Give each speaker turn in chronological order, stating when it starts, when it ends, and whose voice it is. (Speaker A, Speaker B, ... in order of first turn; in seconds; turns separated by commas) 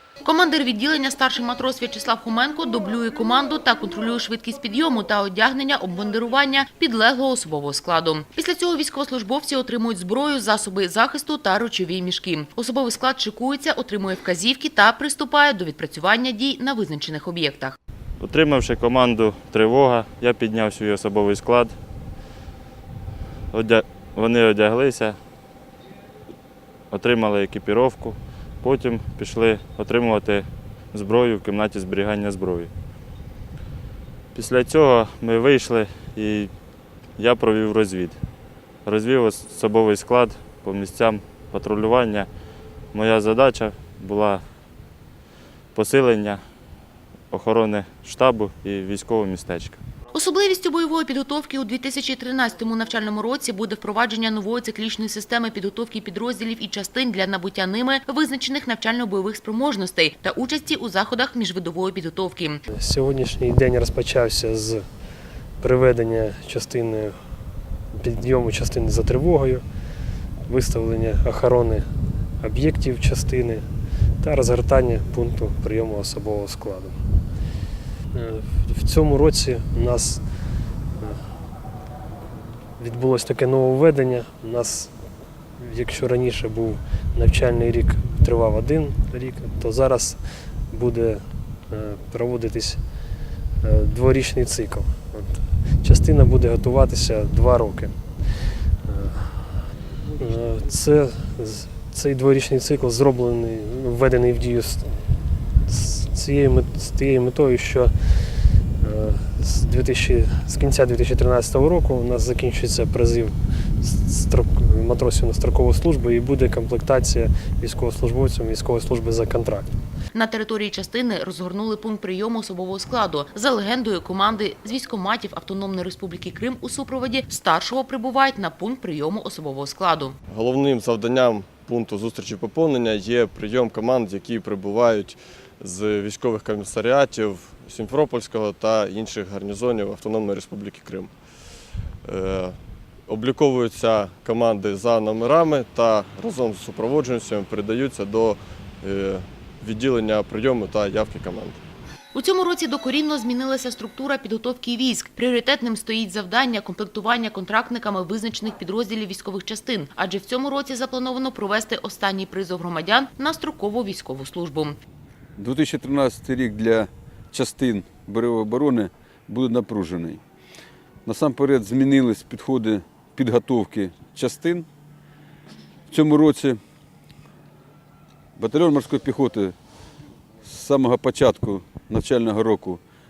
Speaker A: 0.2-17.8, Speaker B: 18.2-21.7, Speaker B: 23.5-25.2, Speaker B: 26.9-32.7, Speaker B: 34.3-36.5, Speaker B: 37.1-38.2, Speaker B: 38.8-42.3, Speaker B: 42.9-44.4, Speaker B: 45.7-46.4, Speaker B: 47.3-49.8, Speaker A: 50.1-62.6, Speaker C: 62.7-64.8, Speaker C: 65.6-67.2, Speaker C: 67.9-69.6, Speaker C: 70.4-71.9, Speaker C: 72.4-73.7, Speaker C: 74.2-77.0, Speaker C: 78.1-80.2, Speaker C: 81.0-81.3, Speaker C: 82.8-84.9, Speaker C: 85.6-92.8, Speaker C: 93.6-98.0, Speaker C: 98.8-99.6, Speaker C: 100.2-104.9, Speaker C: 105.7-119.7, Speaker A: 120.1-130.2, Speaker D: 130.3-141.1, Speaker D: 142.0-151.6, Speaker A: 152.1-164.8, Speaker E: 165.4-170.2, Speaker E: 171.0-174.7, Speaker E: 175.9-176.6, Speaker E: 178.3-179.5, Speaker E: 180.4-182.8